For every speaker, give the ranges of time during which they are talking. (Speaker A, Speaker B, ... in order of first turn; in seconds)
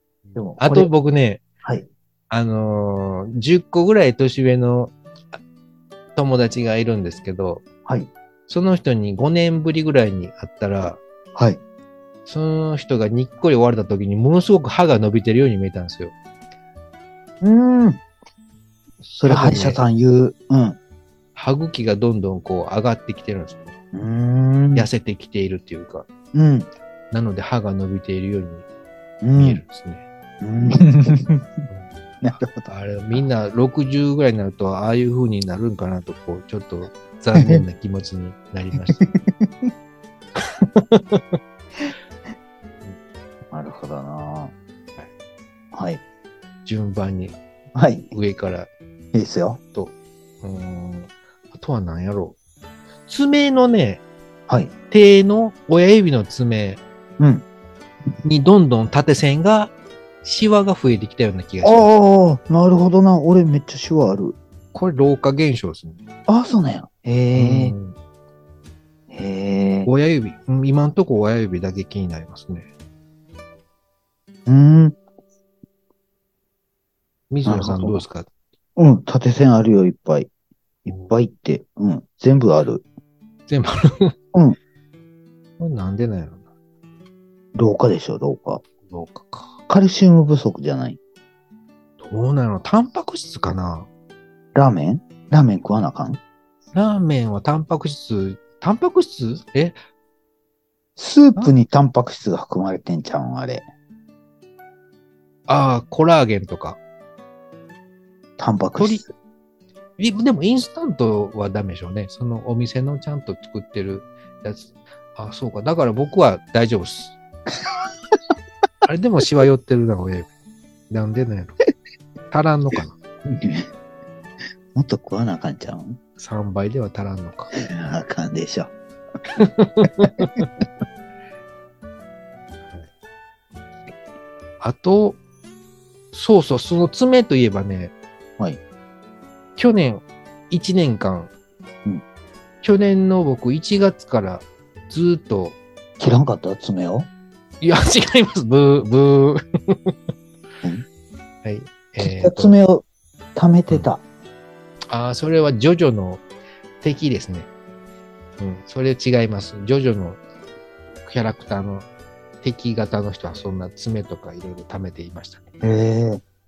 Speaker A: 0.3-1.4, 2.3-5.4, 6.2-7.6, 8.5-11.0, 12.3-16.1, 19.2-19.8, 21.4-23.7, 24.8-26.1, 27.1-28.6, 29.4-30.0, 32.6-39.0, 40.4-41.4, 46.6-47.4, 48.1-48.7, 49.7-52.4, 53.1-54.0, 54.9-56.8, 58.2-61.9, 64.7-66.0, 67.3-68.0, 69.9-72.7, 77.3-78.3, 83.5-84.1, 85.6-86.4, 88.8-89.6, 92.0-93.9, 96.7-99.8, 105.5-106.8, 108.8-109.1, 110.0-117.2, 118.8-120.3, 120.9-121.6, 122.3-123.0, 126.2-127.5, 129.3-130.5, 134.6-135.2, 136.1-137.9, 139.6-141.3, 142.6-145.6, 147.6-149.9, 151.4-152.5, 154.9-156.2, 156.8-157.5, 158.4-160.2, 161.1-161.9, 162.4-165.4
Speaker B: 0.3-0.9, 11.3-11.6, 17.4-18.0, 19.2-20.8, 23.9-24.9, 26.3-26.7, 29.2-29.6, 30.4-31.6, 32.2-32.7, 37.4-37.6, 39.0-39.7, 43.5-44.5, 45.7-46.0, 47.8-48.1, 49.1-49.6, 57.2-57.4, 61.6-64.4, 66.3-67.8, 69.1-69.9, 74.5-75.0, 77.5-78.0, 78.8-80.3, 80.8-82.8, 87.5-88.6, 89.7-91.0, 94.5-96.2, 101.0-103.6, 108.4-109.1, 123.3-123.7, 124.7-126.0, 127.6-128.7, 146.0-147.1, 152.0-154.0, 165.6-166.2